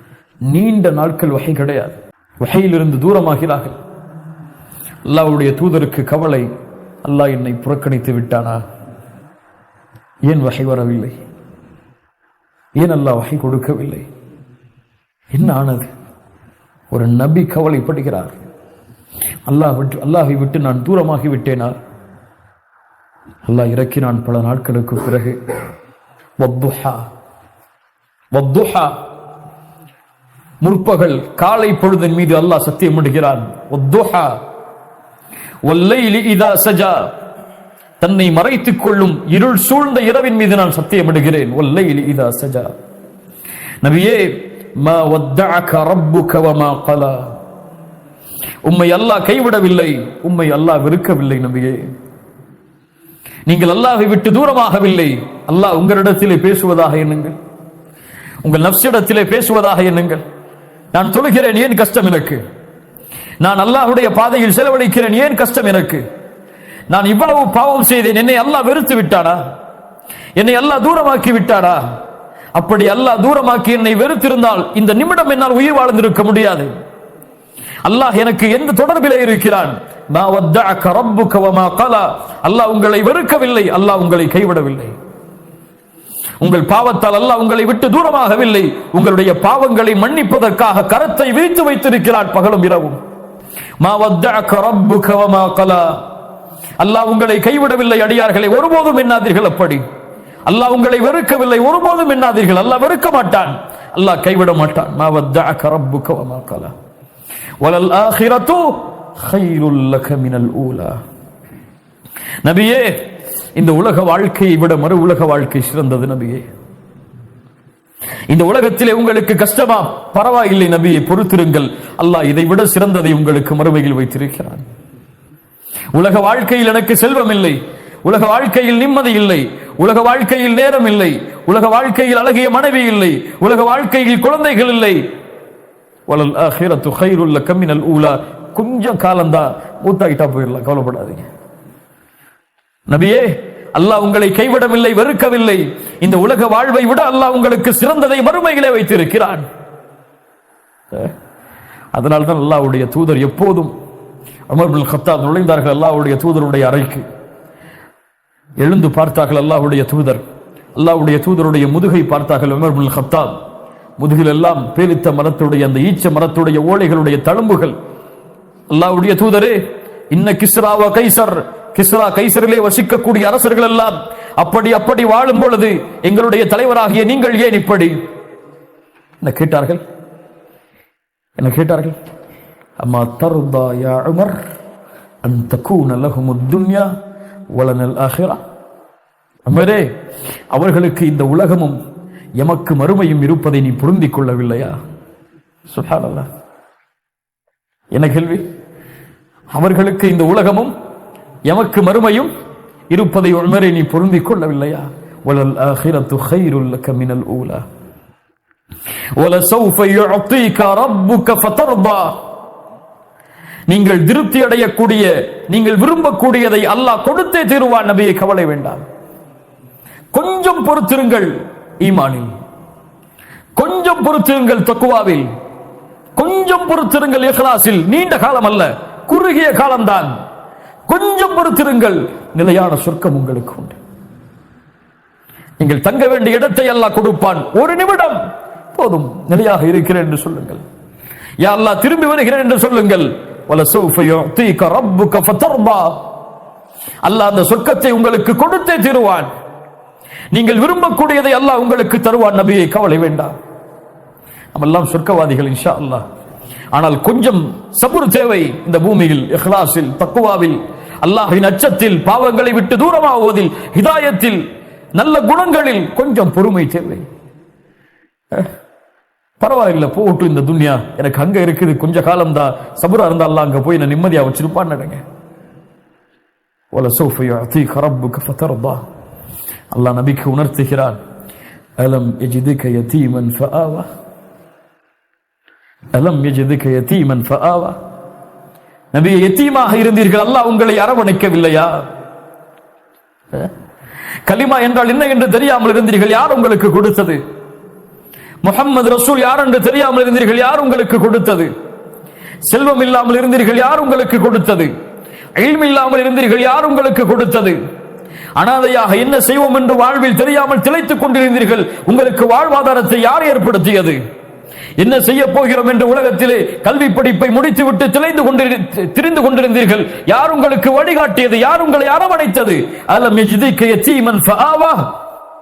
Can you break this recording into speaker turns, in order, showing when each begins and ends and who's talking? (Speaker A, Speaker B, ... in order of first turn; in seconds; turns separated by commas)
Speaker A: 0.5-3.8, Speaker A: 5.1-6.5, Speaker A: 7.0-8.6, Speaker A: 10.3-11.1, Speaker A: 12.8-14.1, Speaker A: 15.3-15.9, Speaker A: 16.9-18.4, Speaker A: 19.5-21.8, Speaker A: 23.5-25.4, Speaker A: 26.4-27.0, Speaker A: 28.3-28.9, Speaker A: 30.6-34.4, Speaker A: 35.6-37.1, Speaker A: 38.0-42.7, Speaker A: 43.8-47.3, Speaker A: 48.6-51.9, Speaker A: 53.5-57.4, Speaker A: 58.4-60.2, Speaker A: 60.9-62.4, Speaker A: 63.4-66.0, Speaker A: 66.9-69.4, Speaker A: 70.3-71.8, Speaker A: 72.5-76.7, Speaker A: 77.8-84.9, Speaker A: 86.4-93.0, Speaker A: 93.8-96.0, Speaker A: 96.8-99.8, Speaker A: 100.5-106.7, Speaker A: 107.6-111.0, Speaker A: 112.4-113.0, Speaker A: 113.5-116.4, Speaker A: 118.3-124.6, Speaker A: 125.9-135.0, Speaker A: 136.1-141.3, Speaker A: 142.9-149.4, Speaker A: 151.9-153.7, Speaker A: 154.5-157.0, Speaker A: 158.6-160.2, Speaker A: 160.8-163.3, Speaker A: 164.0-167.7, Speaker A: 168.7-178.0, Speaker A: 179.2-179.8, Speaker A: 181.4-182.0, Speaker A: 182.8-184.4, Speaker A: 185.2-186.9, Speaker A: 187.5-188.4, Speaker A: 189.5-189.9, Speaker A: 190.5-191.8, Speaker A: 192.4-194.8, Speaker A: 195.7-196.3, Speaker A: 197.9-198.4, Speaker A: 199.5-200.7, Speaker A: 201.5-202.3, Speaker A: 202.9-207.6, Speaker A: 209.2-212.2, Speaker A: 213.7-218.8, Speaker A: 220.1-222.3, Speaker A: 223.6-225.3, Speaker A: 226.2-230.1, Speaker A: 230.9-233.8, Speaker A: 235.6-238.2, Speaker A: 238.7-240.6, Speaker A: 241.4-246.0, Speaker A: 247.0-249.3, Speaker A: 250.3-253.3, Speaker A: 254.5-256.0, Speaker A: 256.7-264.4, Speaker A: 265.0-267.0, Speaker A: 269.4-275.0, Speaker A: 276.7-278.8, Speaker A: 279.7-281.0, Speaker A: 281.8-283.9, Speaker A: 285.9-287.8, Speaker A: 288.9-291.8, Speaker A: 294.2-297.2, Speaker A: 298.4-301.5, Speaker A: 302.4-304.7, Speaker A: 305.4-307.6, Speaker A: 308.4-314.0, Speaker A: 314.8-324.9